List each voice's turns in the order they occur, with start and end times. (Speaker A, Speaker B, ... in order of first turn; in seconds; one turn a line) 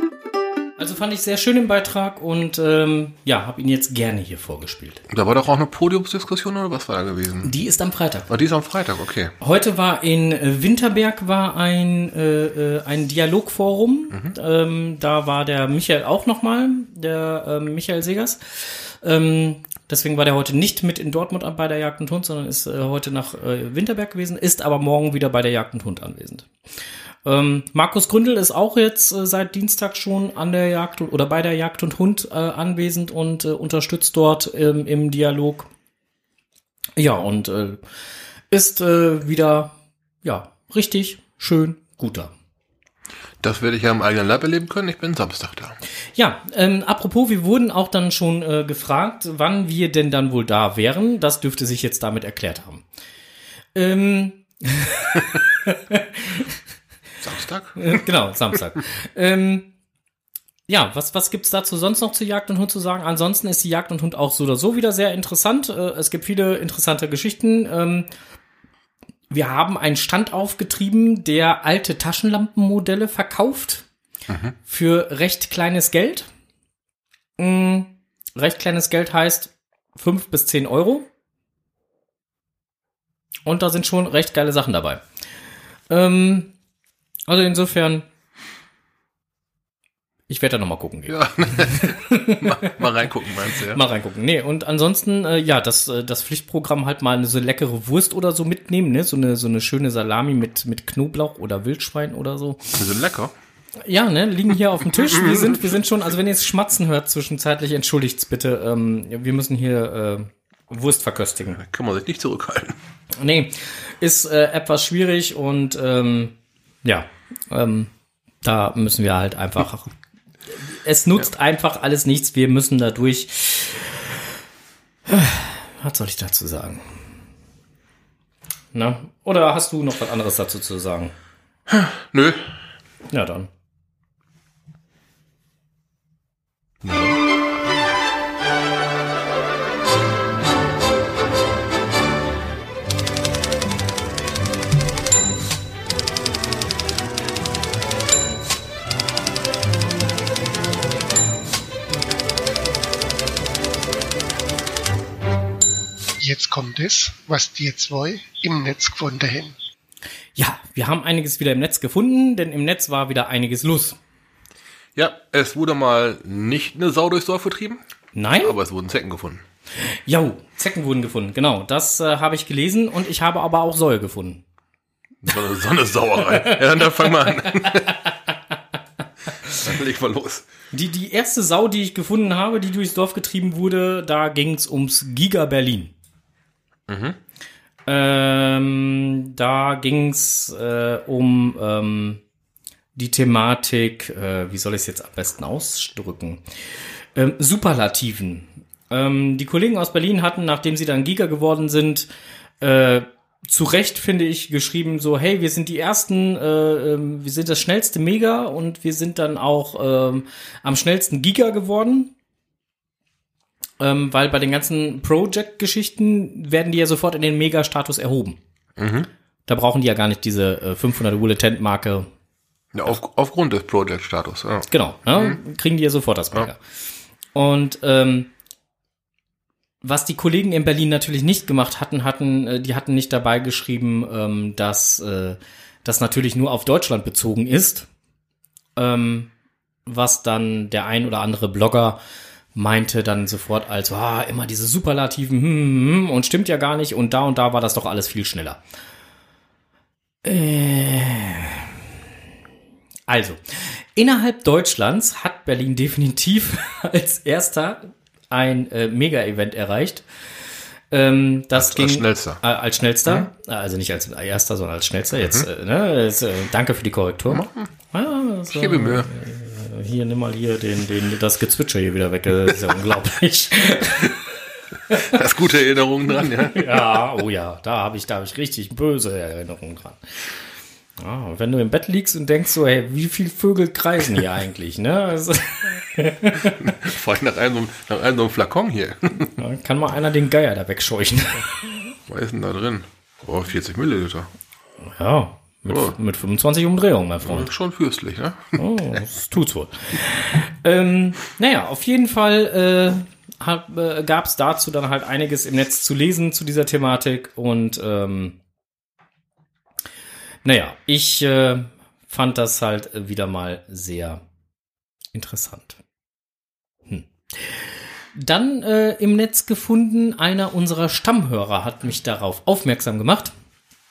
Speaker A: 0.8-5.0
Speaker B: 5.1-7.5
Speaker A: 7.4-8.3
Speaker B: 8.3-9.3
Speaker A: 9.4-26.5
Speaker A: 27.2-35.7
Speaker A: 37.0-37.8
Speaker A: 38.5-42.3
Speaker B: 43.4-45.8
Speaker A: 46.2-52.8
Speaker A: 53.8-56.5
Speaker B: 57.2-58.0
Speaker A: 57.8-59.7
Speaker A: 60.7-68.1
Speaker A: 69.3-73.8
Speaker B: 74.3-74.6
Speaker A: 74.7-76.3
Speaker A: 77.4-81.1
Speaker A: 83.5-85.0
Speaker A: 85.9-86.5
Speaker A: 87.3-88.1
Speaker A: 90.3-92.7
Speaker B: 91.1-93.8
Speaker A: 93.7-102.6
Speaker B: 102.8-103.3
Speaker A: 103.8-111.6
Speaker B: 105.0-105.7
Speaker B: 111.6-112.8
Speaker A: 113.2-117.9
Speaker A: 118.4-119.9
Speaker A: 120.5-124.2
Speaker A: 125.1-127.0
Speaker A: 128.7-131.1
Speaker B: 131.7-132.5
Speaker A: 133.1-133.5
Speaker B: 136.8-137.1
Speaker C: 156.2-159.6
Speaker A: 160.4-164.0
Speaker B: 165.0-167.8
Speaker A: 168.2-168.6
Speaker B: 168.4-169.4
Speaker A: 169.8-174.4
Speaker B: 175.2-177.9
Speaker A: 176.3-177.7
Speaker B: 179.5-180.5
Speaker A: 180.7-185.9
Speaker B: 186.9-187.2
Speaker A: 187.9-192.2
Speaker A: 193.0-196.4
Speaker A: 197.2-202.1
Speaker A: 202.6-212.1
Speaker A: 213.8-218.4
Speaker B: 218.8-219.1
Speaker A: 219.5-222.1
Speaker B: 222.7-225.4
Speaker A: 224.7-226.6
Speaker A: 227.3-228.3
Speaker A: 229.8-237.9
Speaker A: 238.8-239.3
Speaker A: 239.9-242.0
Speaker A: 242.6-248.6
Speaker A: 250.2-251.7
Speaker A: 253.1-260.1
Speaker A: 260.9-274.2
Speaker B: 261.6-262.4
Speaker B: 267.3-267.7
Speaker B: 268.5-269.1
Speaker B: 275.0-276.8
Speaker A: 276.6-280.0
Speaker A: 281.0-286.7
Speaker B: 286.6-289.3
Speaker A: 289.4-291.8
Speaker B: 292.1-294.3
Speaker A: 295.0-297.5
Speaker B: 295.7-295.9
Speaker B: 297.2-298.6
Speaker A: 298.6-308.4
Speaker A: 310.4-314.2
Speaker A: 315.1-315.8
Speaker A: 316.9-317.6
Speaker A: 318.1-323.3